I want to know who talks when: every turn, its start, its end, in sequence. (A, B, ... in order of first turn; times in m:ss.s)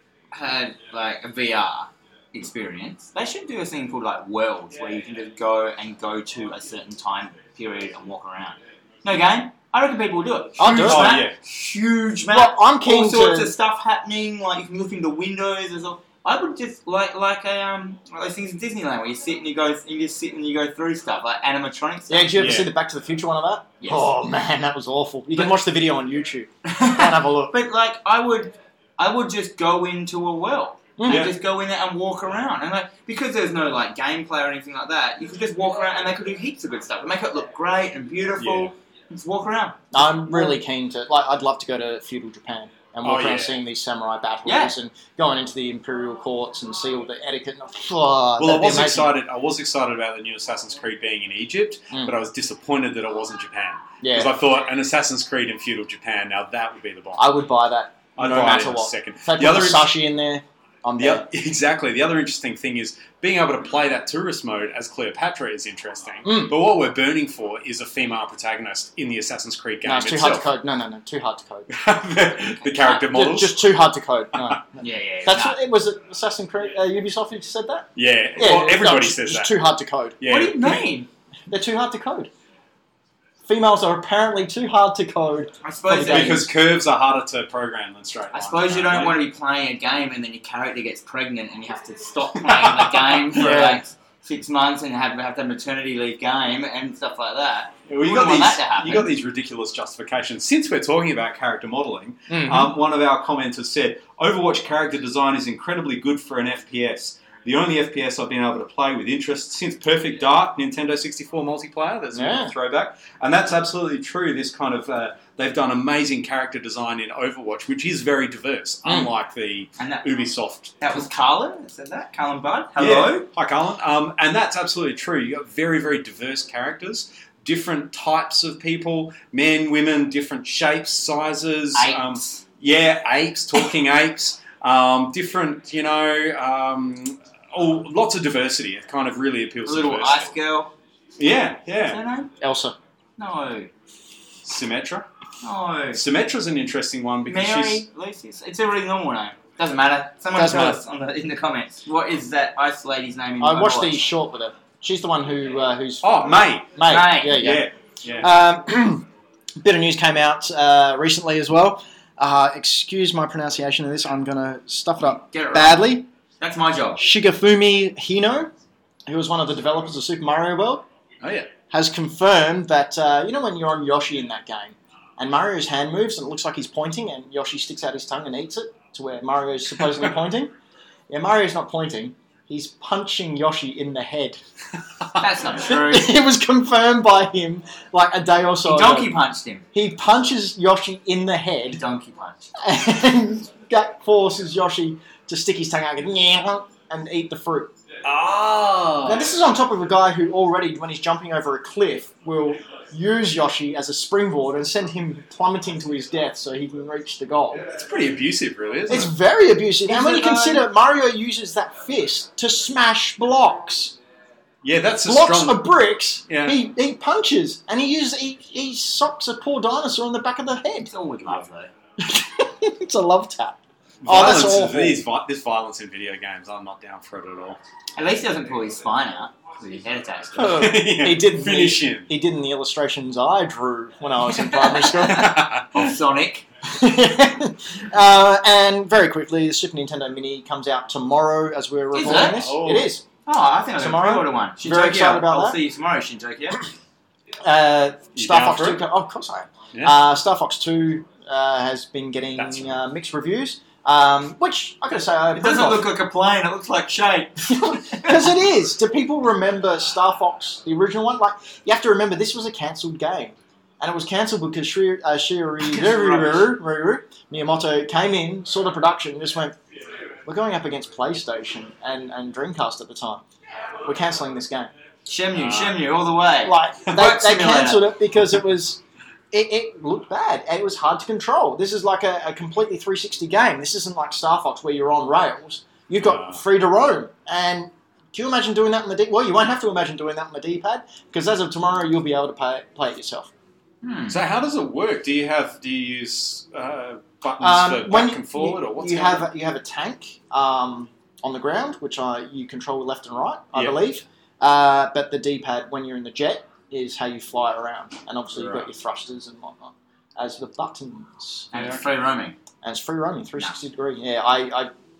0:00.3-0:22.4 A
0:10.6-0:11.2 B
0:10.6-0:11.4 C
0:12.3-0:13.5 B
0:22.1-0:27.6 B
0:22.4-0:22.7 C
0:23.8-0:24.1 A
0:26.6-0:39.8 A
0:31.0-0:31.3 B
0:31.1-0:31.3 C
0:38.4-0:38.7 C
0:39.9-0:49.1 B
0:43.0-0:43.6 C
0:44.4-0:44.7 A
0:48.4-0:57.2 C
0:54.0-0:54.4 B
0:57.2-1:01.2 B
0:58.2-1:00.0 C
1:01.0-1:10.5 C
1:06.2-1:06.5 B
1:09.8-1:11.7 B
1:11.7-1:13.7 C
1:12.9-1:20.2 B
1:14.8-1:15.6 A
1:18.0-1:19.6 C
1:20.2-1:20.9 C
1:20.3-1:21.1 A
1:21.5-1:22.3 B
1:23.4-1:26.5 B
1:25.6-1:26.4 A
1:26.1-1:29.2 C
1:28.3-1:39.1 A
1:32.4-1:33.7 C
1:33.4-1:33.8 B
1:37.9-2:01.0 C
1:42.3-1:42.7 B
1:52.1-1:52.5 B
2:00.8-2:03.3 A
2:02.8-2:20.4 C
2:11.7-2:12.4 A
2:19.6-2:20.7 A
2:21.2-2:22.0 C
2:21.8-2:22.3 A
2:22.4-2:22.8 B
2:23.2-2:23.7 A
2:24.4-2:25.1 C
2:25.4-2:26.0 A
2:25.9-2:27.8 C
2:27.3-2:34.0 A
2:30.3-2:30.8 B
2:33.4-2:37.7 B
2:36.0-2:38.3 C
2:36.8-2:37.4 A
2:38.2-2:39.1 B
2:39.6-2:46.1 B
2:45.3-2:45.8 A
2:46.4-2:47.0 A
2:47.0-2:48.5 B
2:49.1-2:50.9 B
2:51.2-2:51.5 C
2:51.7-3:00.5 B
3:01.1-3:04.4 B
3:05.2-3:06.1 A
3:05.6-3:09.2 B
3:08.6-3:09.6 A
3:09.7-3:11.8 B
3:11.7-3:12.5 A
3:12.6-3:17.7 B
3:18.0-3:19.3 C
3:19.0-3:27.7 B
3:27.6-3:29.1 C
3:28.9-3:34.0 B
3:29.9-3:30.6 A
3:34.6-3:35.7 C
3:35.0-3:40.9 B
3:36.3-3:36.6 C
3:40.9-3:41.7 A
3:42.0-3:45.0 B
3:44.0-3:47.6 C
3:48.0-3:50.7 A
3:50.4-3:55.5 B
3:50.4-3:52.1 C
3:54.3-3:55.0 A
3:55.0-3:55.8 C
3:55.7-3:56.4 A
3:56.6-4:03.0 B
4:01.9-4:02.4 A
4:02.0-4:02.9 C
4:03.2-4:06.6 A
4:03.8-4:05.6 B
4:07.4-4:15.9 B
4:08.2-4:08.8 C
4:12.4-4:12.7 C
4:15.4-4:18.3 A
4:17.6-4:29.6 B
4:25.6-4:26.5 A
4:30.2-4:33.2 B
4:33.8-4:34.7 B
4:35.0-4:37.9 A
4:35.3-4:35.8 C
4:36.4-4:53.3 B
4:46.0-4:46.4 C
4:53.8-4:54.2 A
4:54.1-4:59.2 C
4:57.4-5:11.5 B
5:03.5-5:03.8 C
5:08.4-5:08.7 C
5:11.5-5:12.4 A
5:12.6-5:14.7 B